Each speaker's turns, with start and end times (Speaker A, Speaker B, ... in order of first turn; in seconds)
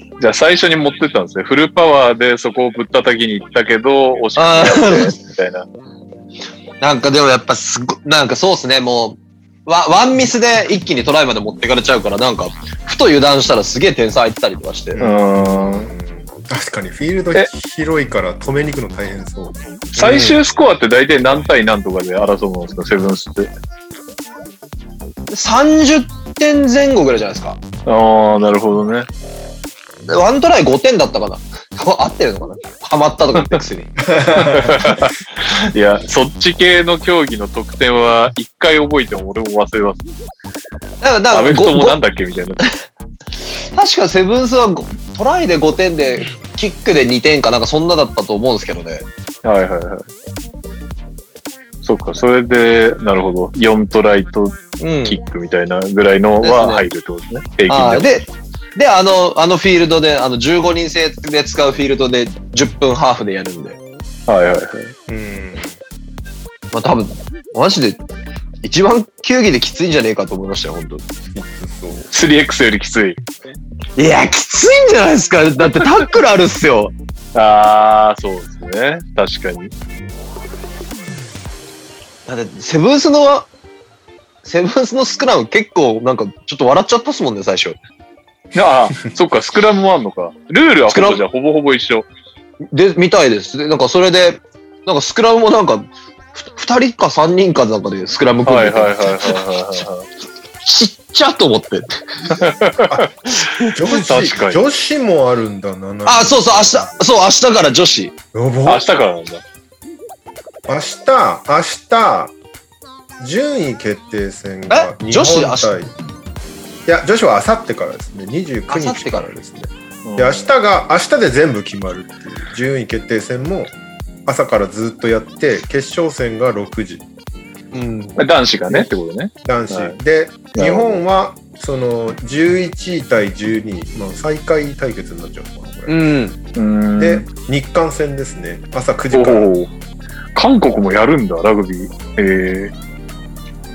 Speaker A: 0.2-5.7, 15.0-15.9, 20.0-23.5, 27.9-29.1, 34.4-40.1, 41.3-42.6, 49.4-50.1, 51.8-58.1, 64.3-64.9, 72.1-73.2, 77.3-79.7, 88.5-92.1, 98.5-100.1, 102.3-103.0, 103.9-104.6, 108.7-109.4, 120.0-120.5, 128.2-130.0, 130.5-131.0, 136.6-137.3, 139.1-139.7, 140.3-142.7
Speaker B: 4.4-5.1, 6.8-15.0, 25.3-27.6, 30.1-34.0, 41.0-42.0, 43.7-49.1, 54.8-55.2, 56.4-56.9, 57.7-63.8, 66.7-68.0, 68.6-71.0, 74.0-76.9, 82.3-83.5, 84.5-87.8, 90.9-91.2, 92.7-99.4, 100.6-102.0, 103.3-103.7, 106.1-108.1, 114.7-115.8, 118.7-119.3, 127.7-128.2, 135.9-136.4
Speaker C: 14.9-20.4, 34.0-35.0, 65.1-65.8, 71.3-72.1, 103.7-107.0, 108.3-108.8, 110.7-112.3, 113.2-116.0, 116.9-123.8, 124.3-127.0, 129.4-136.0, 137.0-139.5